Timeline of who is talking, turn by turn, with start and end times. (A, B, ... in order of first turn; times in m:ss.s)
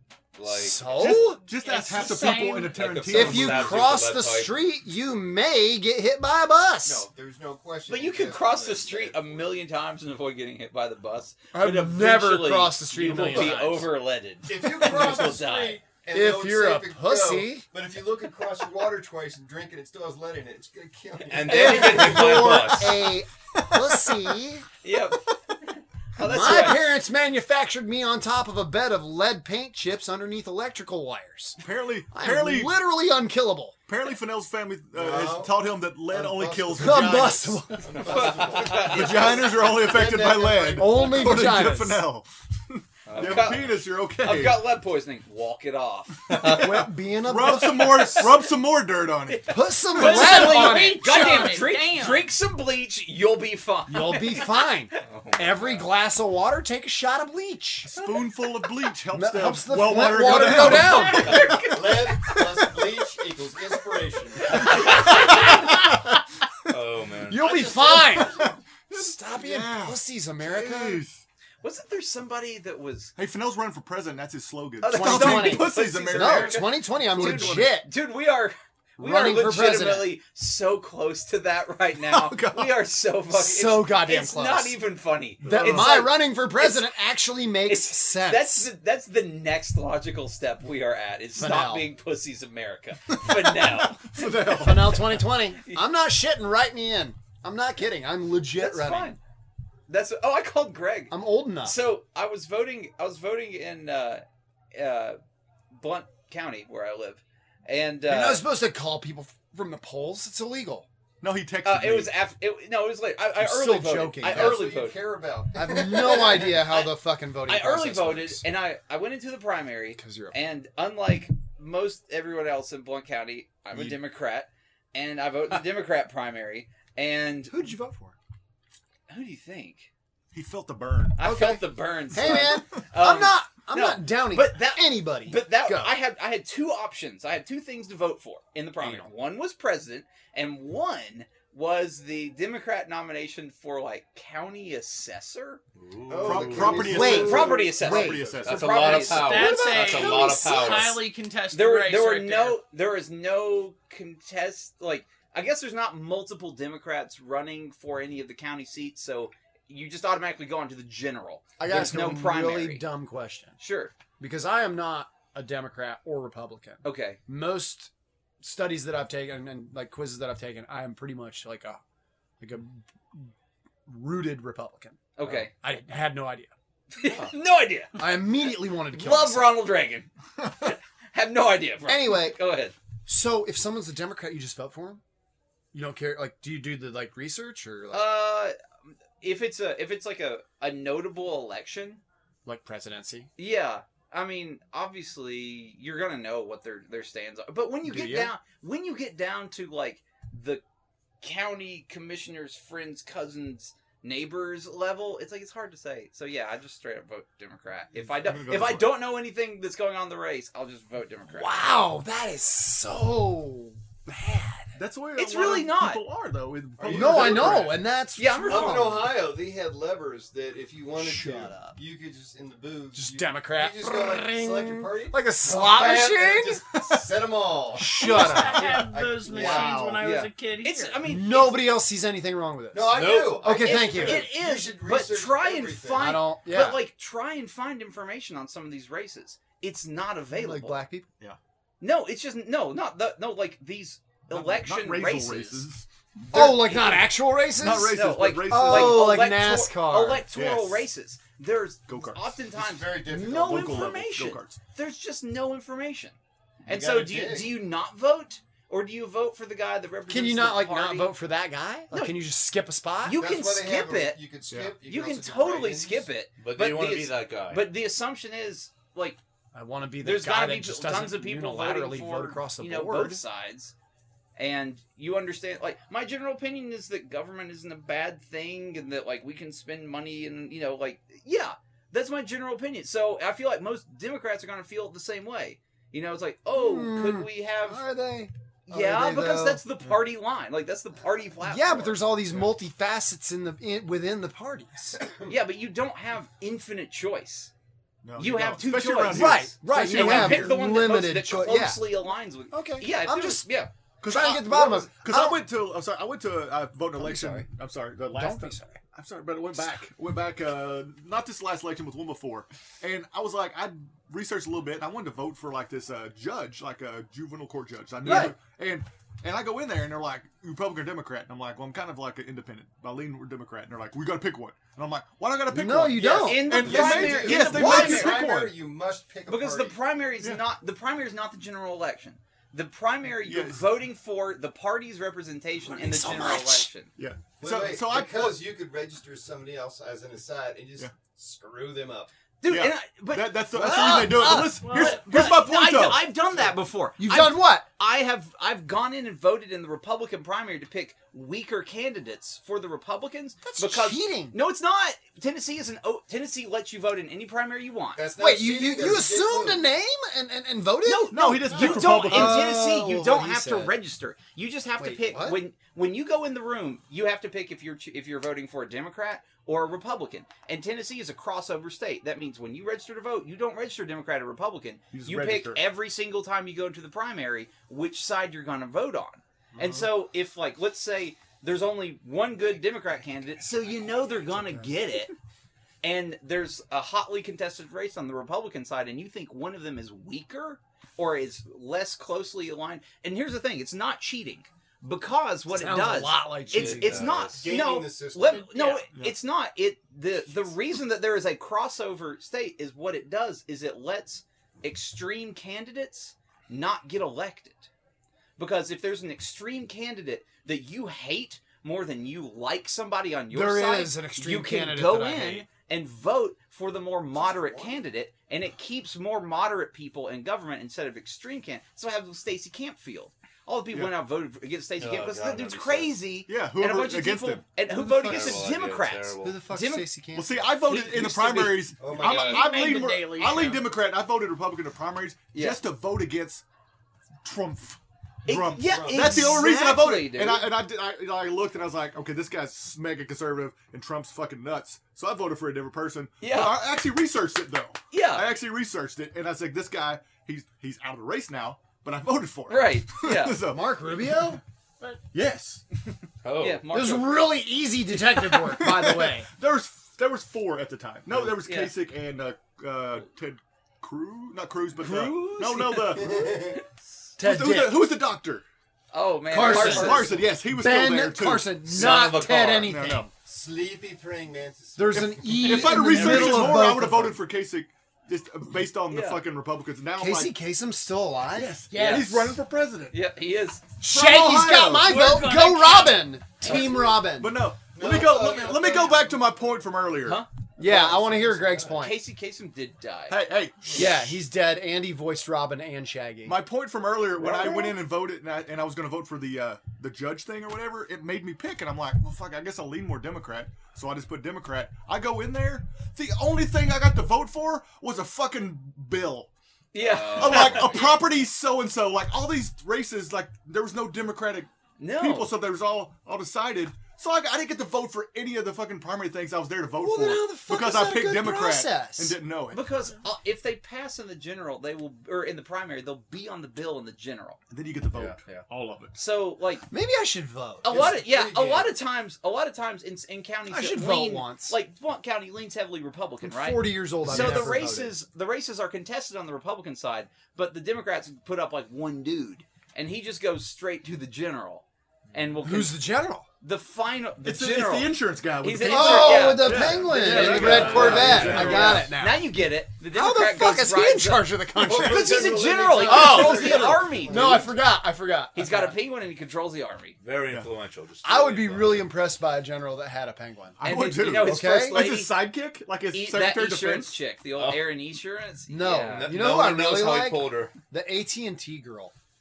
0:00.3-0:00.9 A
0:00.4-0:01.4 B
0:00.8-0:03.8 C
0:01.6-0:02.9 D
0:01.6-0:02.8 E
0:02.5-0:04.5 A
0:03.1-0:07.1 B
0:06.8-0:09.6 F
0:07.9-0:15.8 E
0:11.5-0:13.9 B
0:13.0-0:13.5 F
0:14.4-0:22.9 F
0:14.6-0:15.4 B
0:16.1-0:17.6 B
0:21.3-0:23.2 A
0:21.4-0:24.6 B
0:23.7-0:24.2 C
0:24.8-0:26.9 E
0:26.2-0:31.6 B
0:31.6-0:32.8 C
0:32.1-0:33.8 B
0:33.9-0:37.8 C
0:34.9-0:41.1 F
0:36.8-0:38.0 B
0:38.1-0:39.5 E
0:38.4-0:44.7 C
0:40.8-0:42.0 B
0:43.1-0:46.9 E
0:46.4-0:49.5 C
0:46.4-0:48.2 B
0:47.4-0:48.4 E
0:49.3-0:54.5 E
0:49.5-0:51.7 B
0:50.0-0:52.3 D
0:53.9-0:57.9 B
0:55.0-0:55.8 A
0:57.8-1:02.7 C
0:59.1-1:01.6 B
1:00.4-1:02.1 E
1:01.7-1:05.1 F
1:04.5-1:05.4 C
1:04.6-1:05.8 E
1:05.0-1:05.6 A
1:06.7-1:07.4 A
1:07.3-1:08.4 B
1:07.3-1:08.6 F
1:08.0-1:11.2 C
1:08.9-1:11.0 B
1:11.6-1:13.1 E
1:13.2-1:17.7 C
1:14.8-1:26.9 E
1:14.9-1:17.9 B
1:19.0-1:20.2 B
1:22.0-1:22.8 C
1:23.3-1:24.8 B
1:25.4-1:26.0 C
1:25.4-1:28.7 B
1:27.7-1:35.8 E
1:31.4-1:31.9 B
1:33.4-1:35.1 C
1:34.4-1:39.2 B
1:38.6-1:39.2 E
1:39.9-1:44.2 E
1:41.1-1:41.8 B
1:44.7-1:45.2 E
1:45.7-1:48.4 E
1:48.1-1:50.9 B
1:51.2-1:52.2 C
1:51.6-1:55.0 E
1:53.4-1:54.7 B
1:54.3-1:56.6 F
1:55.6-1:58.4 B
1:56.5-2:07.6 E
2:00.0-2:00.4 B
2:07.5-2:08.2 B
2:09.1-2:09.9 E
2:10.3-2:11.2 C
2:11.2-2:25.6 E
2:11.2-2:15.9 B
2:12.1-2:12.8 C
2:18.8-2:19.1 B
2:25.8-2:27.0 A
2:26.1-2:28.7 F
2:26.2-2:28.7 C
2:26.8-2:29.4 E
2:26.8-2:28.2 B
2:28.4-2:31.0 A
2:28.8-2:32.6 D
2:29.3-2:30.8 B
2:31.5-2:42.8 E
2:41.6-2:43.6 B
2:43.6-2:43.9 E
2:44.2-2:51.8 B
2:46.8-2:47.2 E
2:52.4-2:53.3 B
2:53.9-2:56.5 B
2:55.2-2:55.5 E
2:57.0-2:58.0 E
2:58.0-2:59.6 B
2:58.9-3:00.1 E
3:00.6-3:02.8 E
3:01.8-3:02.4 B
3:03.1-3:05.0 B
3:05.7-3:08.1 B
3:07.9-3:12.0 E
3:12.5-3:13.3 B
3:13.4-3:20.6 E
3:17.8-3:18.3 B
3:21.2-3:31.6 E
3:28.0-3:29.0 C
3:31.3-3:34.8 B
3:34.7-3:37.8 C
3:35.2-3:36.0 E
3:36.8-3:37.7 F
3:36.9-3:39.1 B
3:38.2-3:39.0 E
3:38.4-3:49.9 F
3:41.0-3:41.8 B
3:42.9-3:47.0 B
3:47.7-3:48.8 B
3:48.0-3:51.0 D
3:49.3-3:51.6 E
3:49.4-3:50.0 B
3:51.0-3:54.3 B
3:52.7-3:56.1 F
3:52.9-3:53.8 A
3:53.6-4:00.8 E
3:56.0-3:56.8 B
4:00.3-4:01.1 B
4:01.8-4:05.7 E
4:04.3-4:07.0 C
4:06.3-4:06.6 E
4:06.3-4:10.3 B
4:07.6-4:09.1 C
4:07.7-4:21.1 E
4:10.3-4:10.9 C
4:11.9-4:12.3 C
4:12.5-4:14.0 F
4:13.4-4:14.6 C
4:16.7-4:17.5 F
4:20.1-4:23.2 B
4:21.9-4:22.2 E
4:23.0-4:24.2 E
4:23.2-4:26.1 F
4:24.5-4:24.8 C
4:24.8-4:29.2 E
4:26.4-4:27.7 A
4:29.5-4:33.2 B
4:30.0-4:33.7 E
4:34.4-4:47.8 E
4:46.5-4:49.6 B
4:48.7-4:52.0 E
4:51.4-4:55.2 B
4:55.3-4:57.5 E
4:58.0-5:00.6 C
4:58.2-5:03.7 E
4:59.1-5:01.9 B
5:02.5-5:03.5 B
5:04.0-5:28.6 C
5:04.0-5:05.4 B
5:07.0-5:07.5 B
5:08.1-5:08.8 B
5:18.0-5:18.3 E
5:18.0-5:18.3 B
5:25.5-5:26.7 B
5:26.0-5:29.8 F
5:26.2-5:28.3 E
5:29.3-5:36.9 E
5:33.2-5:33.7 C
5:35.6-5:36.7 B
5:37.0-5:38.4 C
5:37.4-5:42.1 F
5:42.4-5:58.0 E
5:42.5-5:46.1 C
5:43.5-5:44.6 B
5:44.6-5:45.0 D
5:47.0-5:47.7 B
5:53.4-5:54.4 B
5:57.9-5:59.6 F
5:58.2-6:03.8 B
6:00.8-6:25.1 E
6:01.1-6:02.5 C
6:04.8-6:05.4 B
6:14.9-6:15.6 C
6:19.6-6:19.8 F
6:24.4-6:24.7 C
6:25.8-6:47.7 E
6:35.5-6:37.1 B
6:36.5-6:37.6 A
6:37.3-6:38.5 F
6:48.4-7:09.9 E
6:53.3-6:55.4 B
6:57.1-6:57.8 F
7:04.8-7:05.9 A
7:06.3-7:07.5 C
7:07.7-7:08.4 B
7:07.9-7:09.4 A
7:09.2-7:10.4 B
7:10.2-7:16.4 C
7:10.6-7:11.7 E
7:11.8-7:12.7 F
7:12.0-7:12.4 A
7:12.1-7:13.6 D
7:15.3-7:15.6 E
7:17.2-7:34.4 C
7:18.2-7:20.5 E
7:18.6-7:19.2 F
7:26.2-7:26.6 E
7:27.9-7:28.3 E
7:32.5-7:33.4 E
7:33.5-7:34.4 B
7:35.1-7:35.6 C
7:36.2-7:36.7 A
7:36.4-7:37.2 E
7:36.7-7:39.3 B
7:38.0-7:46.2 C
7:41.4-7:41.7 E
7:44.8-7:46.6 E
7:46.0-7:46.6 F
7:47.2-7:47.8 B
7:47.2-7:48.4 C
7:48.9-7:50.2 E
7:49.3-7:53.1 B
7:49.3-7:50.3 F
7:49.4-7:51.7 C
7:51.7-7:52.7 A
7:52.6-7:53.1 C
7:53.2-7:55.4 F
7:54.8-7:57.2 B
7:54.9-8:00.3 C
7:58.9-7:59.2 E
8:00.0-8:01.6 B
8:01.3-8:03.0 C
8:01.6-8:02.4 D
8:01.7-8:02.2 E
8:02.9-8:03.6 E
8:03.8-8:07.4 B
8:03.8-8:05.0 C
8:04.8-8:06.2 D
8:06.4-8:06.7 E
8:06.4-8:10.2 C
8:07.7-8:09.2 F
8:10.6-8:12.0 B
8:10.6-8:11.8 F
8:11.8-8:13.2 E
8:13.1-8:14.2 C
8:13.7-8:16.4 B
8:13.8-8:14.0 E
8:16.3-8:29.3 C
8:17.2-8:17.8 B
8:29.7-8:30.9 E
8:29.8-8:31.0 A
8:30.1-8:42.7 C
8:34.8-8:35.3 E
8:39.8-8:42.2 B
8:42.5-8:47.4 E
8:47.5-8:48.9 C
8:47.9-8:48.4 A
8:48.9-8:49.7 E
8:49.7-8:51.7 B
8:50.6-9:05.8 E
8:50.7-8:51.7 F
8:53.5-8:54.6 B
8:56.2-8:58.0 B
8:57.0-8:57.6 C
9:05.4-9:06.3 B
9:06.4-9:14.3 E
9:07.2-9:11.9 C
9:08.6-9:12.3 B
9:10.0-9:11.6 A
9:12.9-9:18.8 B
9:14.6-9:17.7 F
9:14.8-9:17.4 E
9:18.3-9:20.0 E
9:20.0-9:21.9 A
9:21.0-9:24.8 B
9:23.6-9:27.0 C
9:23.6-9:25.2 E
9:25.9-9:29.2 E
9:27.4-9:27.7 A
9:28.5-9:31.9 B
9:28.7-9:30.5 A